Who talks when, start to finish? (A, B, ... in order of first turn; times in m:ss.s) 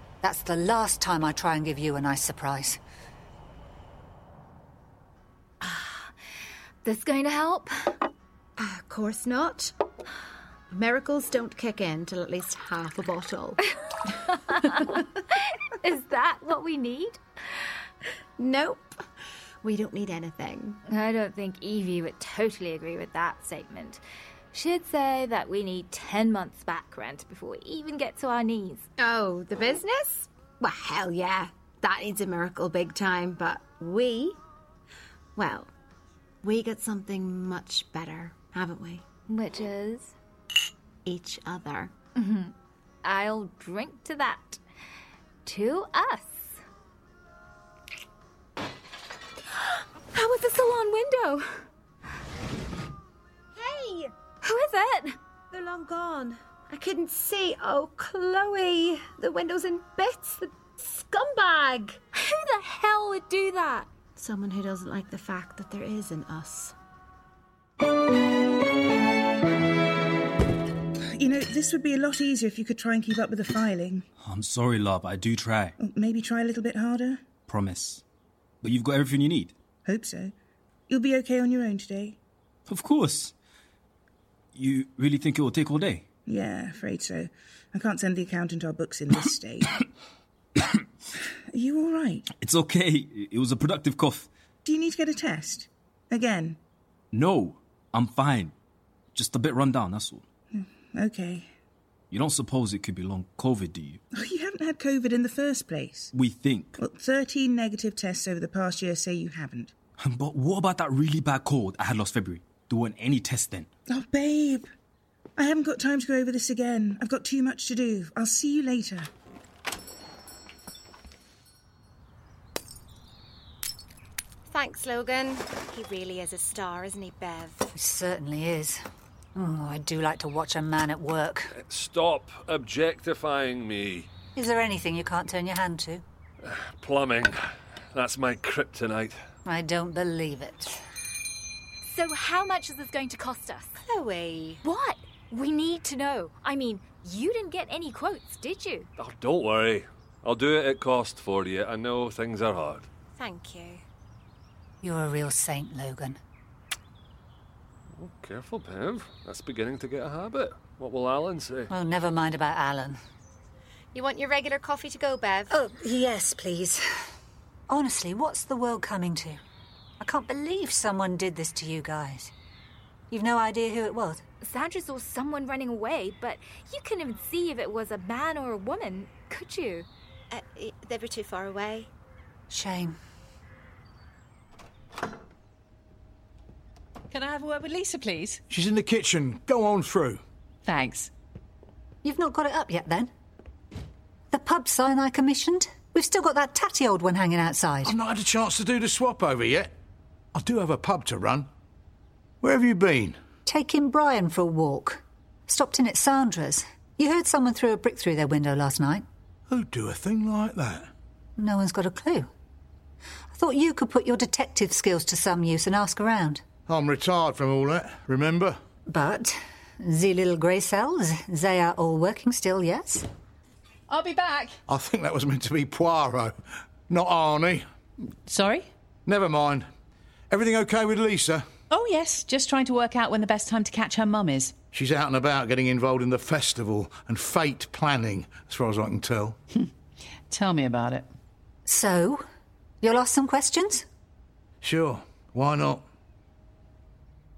0:00.2-0:02.8 A
0:05.6-0:06.1 B
0:06.8-0:08.0 B
0:08.6-0:09.7 C
0:10.7-0:13.6 C
0:14.3-0:17.2 B
0:18.4-0:19.0 C
0:19.6-0:20.8 C
0:20.9-0:24.0 B
0:24.5-0:28.9 B
0:29.0-0:34.4 C
0:35.4-0:35.7 C
0:36.4-0:39.0 C
0:39.3-0:40.1 B
0:41.0-0:41.9 C
0:42.2-0:44.6 B
0:45.4-0:46.6 B
0:50.1-0:51.6 B
0:53.6-0:54.1 C
0:54.4-0:55.2 B
0:55.5-1:02.0 C
1:02.1-1:03.9 B
1:04.2-1:06.7 C
1:11.1-1:14.0 D
1:14.2-1:15.8 E
1:15.8-1:17.3 D
1:17.4-1:18.0 E
1:18.6-1:19.5 E
1:19.8-1:20.3 D
1:20.9-1:22.2 D
1:22.7-1:23.3 E
1:24.5-1:26.0 E
1:26.2-1:29.8 D
1:31.5-1:32.3 D
1:32.3-1:34.3 E
1:34.6-1:36.6 D
1:37.1-1:38.5 E
1:39.1-1:40.2 E
1:40.5-1:41.5 D
1:42.1-1:44.0 E
1:44.1-1:46.1 D
1:46.1-1:46.7 E
1:46.8-1:49.7 D
1:50.0-1:53.7 E
1:53.9-1:54.7 D
1:55.4-1:59.1 D
2:04.5-2:07.6 C
2:07.7-2:08.8 A
2:09.3-2:11.5 A
2:11.5-2:14.1 F
2:14.4-2:16.0 A
2:16.4-2:17.4 F
2:17.9-2:19.2 F
2:19.4-2:20.8 A
2:21.8-2:23.8 B
2:23.8-2:24.6 C
2:24.6-2:28.9 B
2:29.0-2:32.9 F
2:33.2-2:33.8 C
2:34.8-2:36.2 A
2:37.9-2:41.7 F
2:41.7-2:43.0 A
2:43.9-2:45.5 C
2:45.5-2:46.8 A
2:47.7-2:49.4 A
2:50.0-2:52.3 A
2:53.1-2:54.2 A
2:54.4-2:59.9 B
3:00.3-3:01.9 C
3:02.5-3:03.0 A
3:07.1-3:08.4 G
3:08.5-3:10.2 H
3:10.6-3:11.1 G
3:12.0-3:13.1 A
3:14.3-3:17.9 A
3:17.8-3:19.7 H
3:20.3-3:21.5 H
3:22.4-3:23.2 H
3:23.4-3:29.0 A
3:29.5-3:30.9 H
3:31.4-3:32.3 A
3:33.3-3:36.4 A
3:36.7-3:38.6 H
3:38.9-3:43.1 A
3:43.9-3:44.6 G
3:44.7-3:46.4 H
3:46.9-3:47.6 H
3:48.2-3:48.7 G
3:49.0-3:49.7 H
3:50.3-3:51.5 H
3:51.7-3:54.5 G
3:54.7-3:59.4 H
4:00.3-4:01.1 G
4:01.6-4:02.2 A
4:02.8-4:03.9 A
4:04.6-4:05.8 H